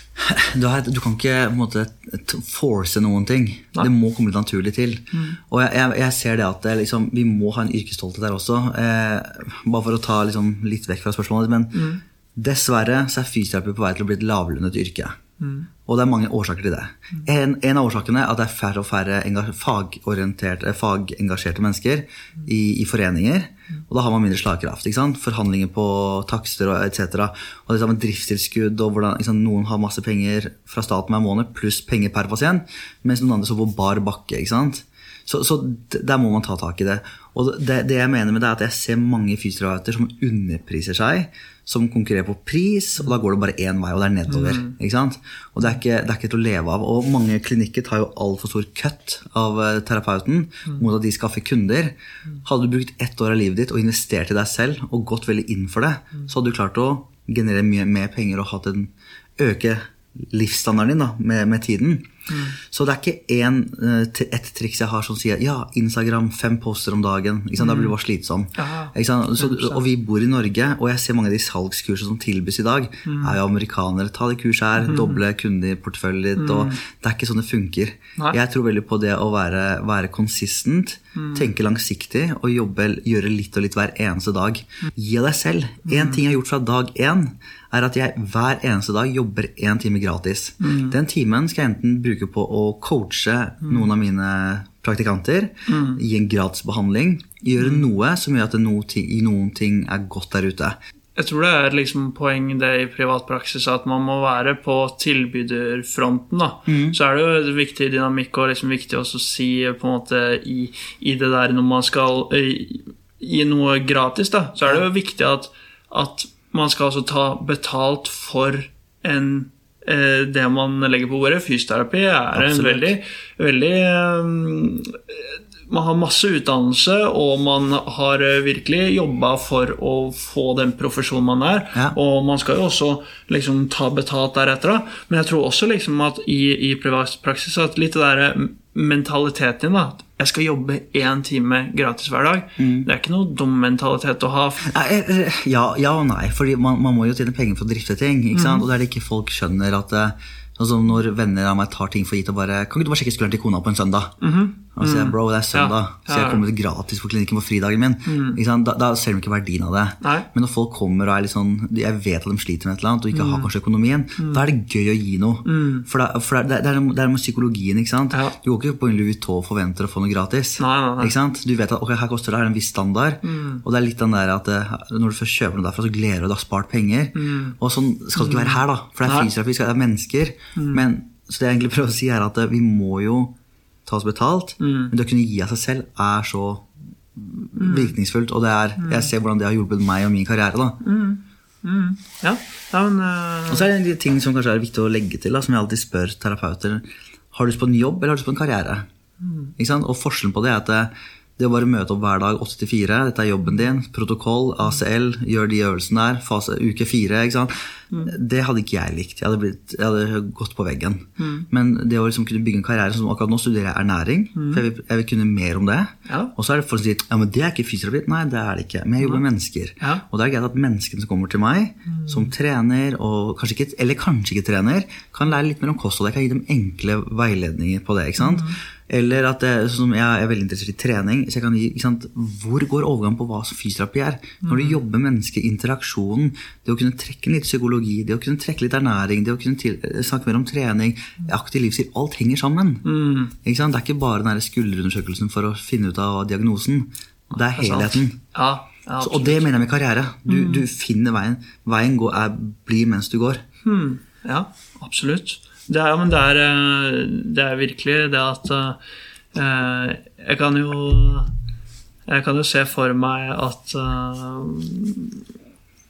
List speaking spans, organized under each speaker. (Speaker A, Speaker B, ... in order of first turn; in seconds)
Speaker A: 0.2-15.2, 15.8-100.8, 106.7-107.0, 122.3-122.9, 142.6-142.9, 144.6-154.2, 154.7-183.3, 183.8-190.8, 193.5-198.9, 199.6-248.2, 249.0-253.4
Speaker B: 5.1-5.4, 11.7-12.0, 15.4-15.7, 44.3-44.7, 62.3-62.6, 67.6-67.9, 68.6-69.8, 73.0-73.4, 74.8-75.2, 76.4-76.8, 81.2-81.5, 85.9-86.2, 90.6-91.0, 95.7-96.0, 97.6-97.9, 101.2-144.7, 148.3-148.6, 154.2-156.4, 158.1-158.4, 160.0-160.3, 163.1-163.5, 165.4-165.9, 170.6-171.1, 173.2-173.6, 177.2-177.6, 178.2-179.3, 180.6-180.8, 184.6-184.9, 187.6-187.9, 188.8-189.1, 190.8-193.7, 199.2-199.5, 211.2-211.5, 214.3-214.6, 221.9-222.3, 228.2-228.6, 234.4-234.8, 242.8-243.3, 247.5-249.5, 250.3-250.7, 253.6-258.8, 259.3-261.3, 262.1-265.2